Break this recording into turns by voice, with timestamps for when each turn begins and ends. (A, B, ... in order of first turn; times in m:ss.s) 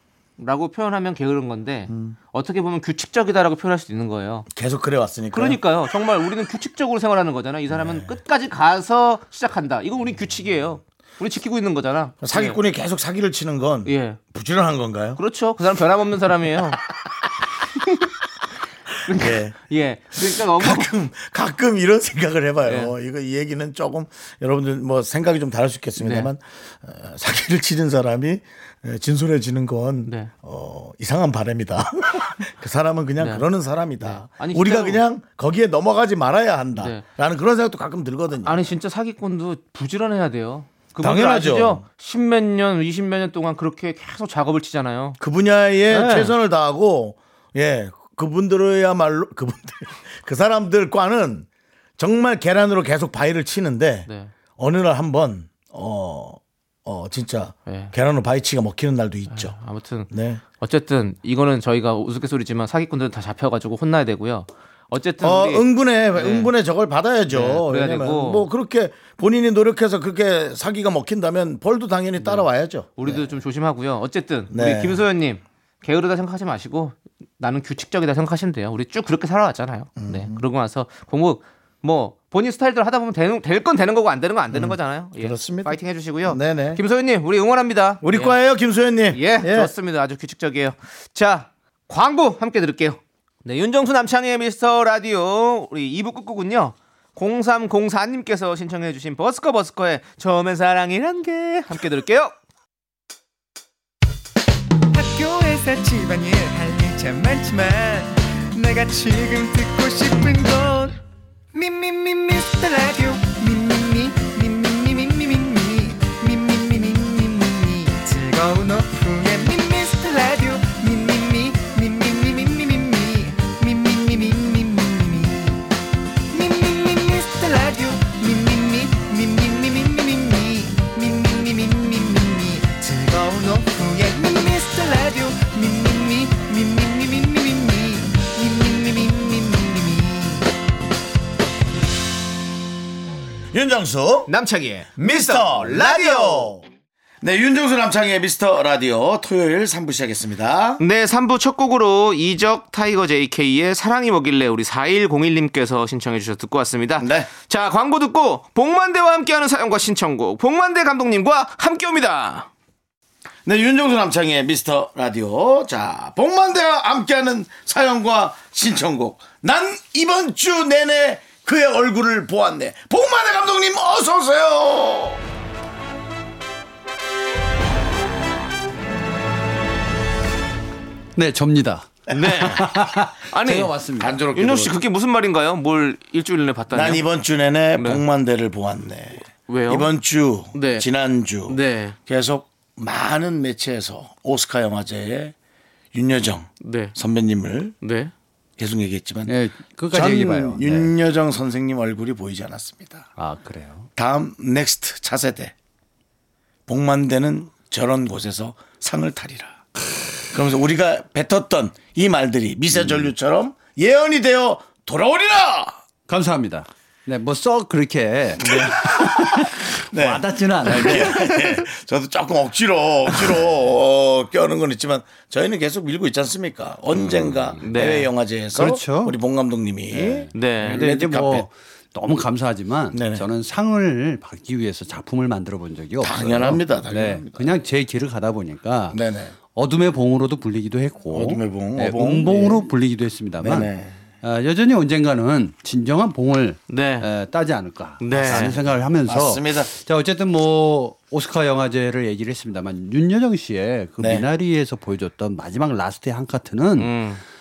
0:00.4-0:04.5 A
0:01.9-0:02.2 B
0:04.5-0:05.6 B
0:05.3-0:12.6 A
0:07.7-0:08.2 B
0:12.2-0:15.2 B
0:13.9-0:14.2 A
0:15.2-0:16.8 A
0:19.0-0:20.9 A
0:19.1-0:19.6 B
0:20.2-0:38.7 B
0:22.7-0:22.9 A
0:26.0-0:26.3 A
0:30.1-0:30.3 A
0:33.2-0:33.4 A
0:34.0-0:35.0 A
0:36.8-0:37.0 A
0:38.4-0:45.2 A
0:41.0-0:41.8 B
0:45.2-0:51.5 B
0:45.9-0:46.3 A
0:52.0-0:59.6 B
0:54.1-0:54.3 A
0:57.7-0:57.9 A
0:59.3-1:06.5 A
1:00.1-1:00.4 B
1:05.2-1:13.3 B
1:07.3-1:08.5 A
1:12.2-1:12.4 A
1:13.0-1:28.4 A
1:14.5-1:15.0 B
1:20.0-1:20.4 B
1:24.5-1:26.8 B
1:28.0-1:29.7 B
1:29.1-1:42.4 A
1:44.9-1:51.0 C
1:51.5-2:05.7 C
2:06.3-2:20.5 C
2:23.5-2:24.3 B
2:24.3-2:26.5 A
2:25.0-2:26.6 B
2:27.2-2:30.8 B
2:30.8-2:42.5 A
2:37.0-2:37.3 B
2:43.4-2:55.2 B
3:01.2-3:04.2 D
3:02.1-3:02.7 A
3:02.1-3:02.8 B
3:03.3-3:03.7 A
3:04.0-3:04.8 B
3:04.3-3:07.1 A
3:06.7-3:15.4 B
3:07.8-3:08.0 A
3:09.5-3:09.9 A
3:10.5-3:10.9 A
3:11.5-3:12.0 A
3:15.9-3:17.8 B
3:16.6-3:17.0 A
3:17.8-3:18.1 A
3:18.6-3:19.4 B
3:19.3-3:20.9 D
3:19.9-3:23.1 B
3:23.2-3:23.9 D
3:24.0-3:25.5 B
3:26.7-3:29.6 B
3:30.3-3:35.8 B
3:32.8-3:33.1 D
3:36.1-3:41.6 D
3:38.4-3:51.5 B
3:47.6-3:48.1 A
3:48.5-3:49.2 D
3:49.9-3:59.0 D
3:50.3-3:50.8 A
3:52.9-3:53.3 B
3:56.0-3:57.5 B
3:58.9-3:59.4 B
3:59.5-4:17.0 D
4:01.1-4:02.6 B
4:03.4-4:04.0 B
4:06.7-4:07.1 A
4:08.0-4:08.6 A
4:08.2-4:09.7 B
4:14.0-4:14.3 B
4:16.8-4:17.2 A